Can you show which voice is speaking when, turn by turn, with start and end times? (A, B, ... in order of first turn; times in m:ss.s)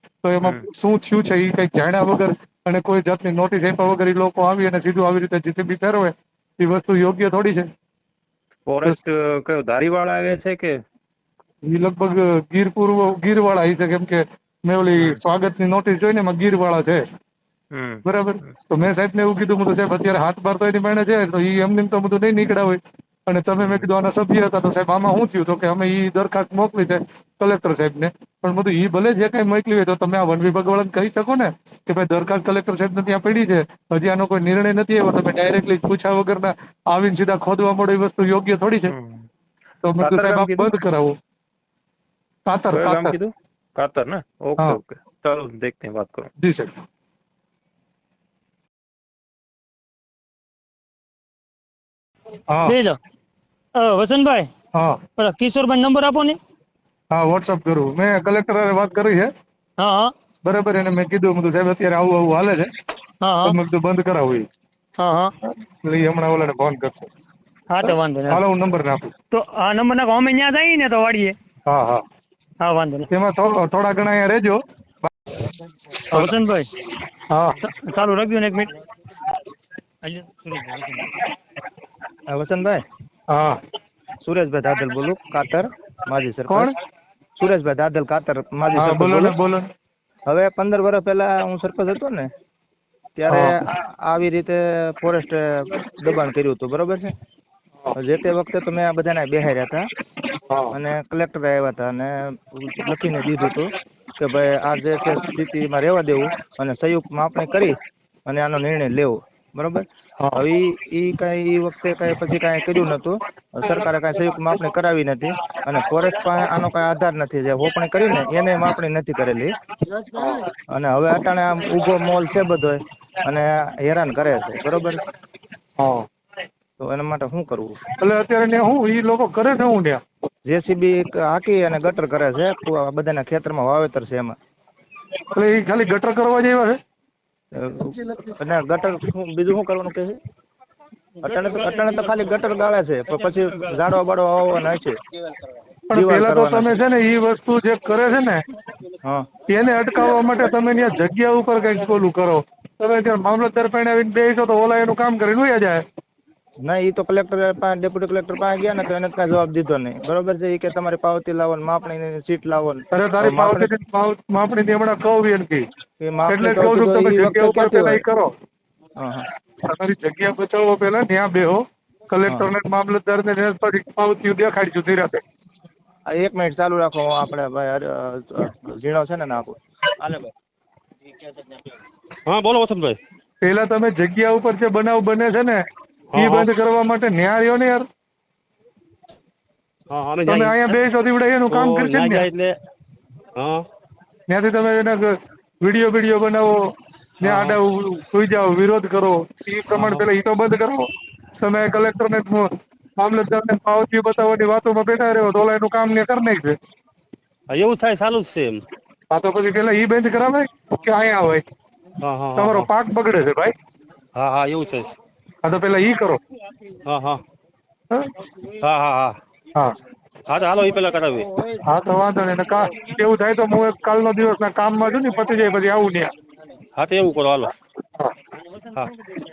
0:00.2-0:07.7 A
0:08.7-0:10.8 B
0:11.7-0:17.0 A
0:17.7-0:18.5 B
0:18.0-0:38.9 A
0:38.9-0:39.3 B
0:39.8-0:41.1 A
0:40.0-0:40.7 B
0:42.5-0:43.2 A
0:42.7-0:46.3 B
0:46.4-0:46.7 A
0:52.5-0:52.8 A
0:52.6-0:53.0 C
0:53.8-0:54.4 C
0:55.2-0:56.4 C
0:57.1-0:59.3 A
0:59.8-1:00.1 C
1:00.4-1:02.7 A
1:03.2-1:03.6 C
1:03.4-1:04.5 A
1:05.0-1:05.3 C
1:05.8-1:07.1 A
1:07.7-1:08.4 C
1:07.8-1:09.1 A
1:09.3-1:11.3 C
1:11.7-1:12.0 A
1:12.6-1:13.1 C
1:13.1-1:15.1 A
1:16.1-1:16.6 C
1:17.3-1:17.6 A
1:17.6-1:18.7 C
1:20.0-1:21.1 C
1:22.3-1:22.8 D
1:23.3-1:23.6 A
1:24.2-1:26.7 D
1:26.5-1:26.7 A
1:27.4-1:29.4 D
1:28.8-1:29.7 A
1:30.3-1:32.3 D
1:33.2-1:37.1 D
1:38.0-1:39.9 D
1:40.5-1:40.7 A
1:40.7-1:47.8 D
1:48.3-1:59.5 D
2:00.2-2:05.0 D
2:05.8-2:06.1 A
2:06.8-2:07.8 D
2:08.0-2:10.0 A
2:10.5-2:14.4 D
2:15.3-2:16.8 A
2:17.5-2:20.2 D
2:21.2-2:22.2 C
2:21.2-2:25.0 D
2:23.1-2:23.8 C
2:25.9-2:28.4 A
2:25.9-2:26.8 D
2:29.5-2:35.8 A
2:36.6-2:43.7 D
2:42.9-2:45.7 A
2:46.0-2:48.0 D
2:46.3-2:48.3 A
2:49.0-2:49.3 D
2:49.7-2:55.2 A
2:56.1-3:00.3 D
3:02.3-3:03.0 C
3:03.4-3:05.6 A
3:06.1-3:06.5 C
3:06.1-3:07.9 A
3:09.9-3:10.8 C
3:10.2-3:12.3 A
3:11.5-3:12.6 C
3:13.4-3:13.6 C
3:14.3-3:15.1 A
3:15.6-3:16.6 A
3:17.2-3:22.5 A
3:17.2-3:17.6 C
3:19.7-3:20.1 C
3:23.0-3:26.6 A
3:27.5-3:28.6 C
3:29.1-3:31.4 A
3:32.0-3:32.7 C
3:32.4-3:33.5 A
3:34.2-3:34.9 C
3:35.4-3:36.2 A
3:36.8-3:37.2 C
3:38.6-3:39.2 C
3:40.3-3:41.3 C
3:41.6-3:46.1 A
3:46.8-3:47.5 C